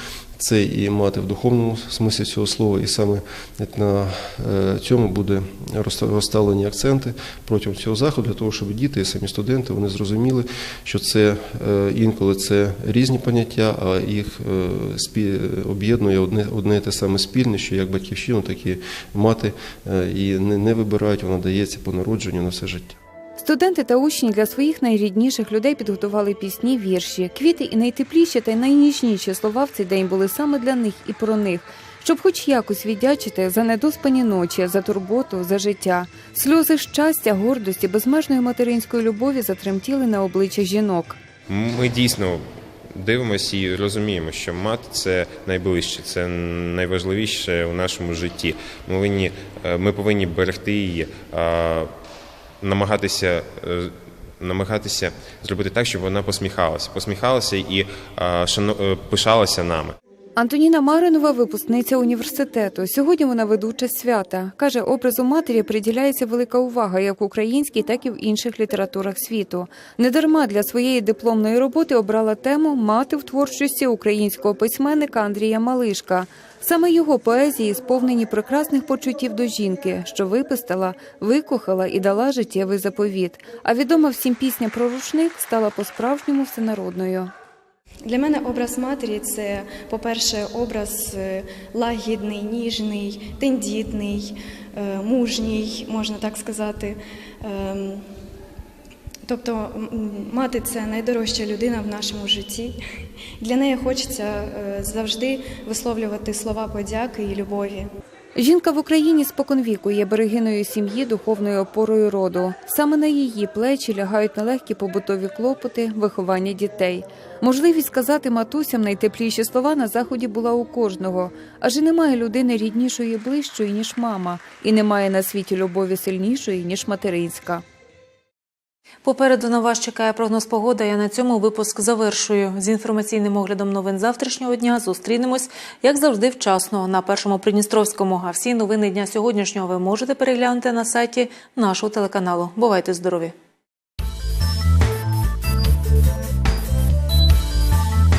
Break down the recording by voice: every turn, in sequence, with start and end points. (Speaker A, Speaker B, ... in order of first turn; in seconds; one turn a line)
Speaker A: 0.4-22.9
Speaker B: 23.4-41.2
Speaker C: 41.5-51.9
Speaker C: 52.6-60.0
Speaker B: 60.4-87.3
Speaker D: 88.0-98.0
Speaker D: 99.2-102.8
Speaker D: 103.4-107.9
Speaker B: 108.4-127.6
Speaker E: 129.0-143.3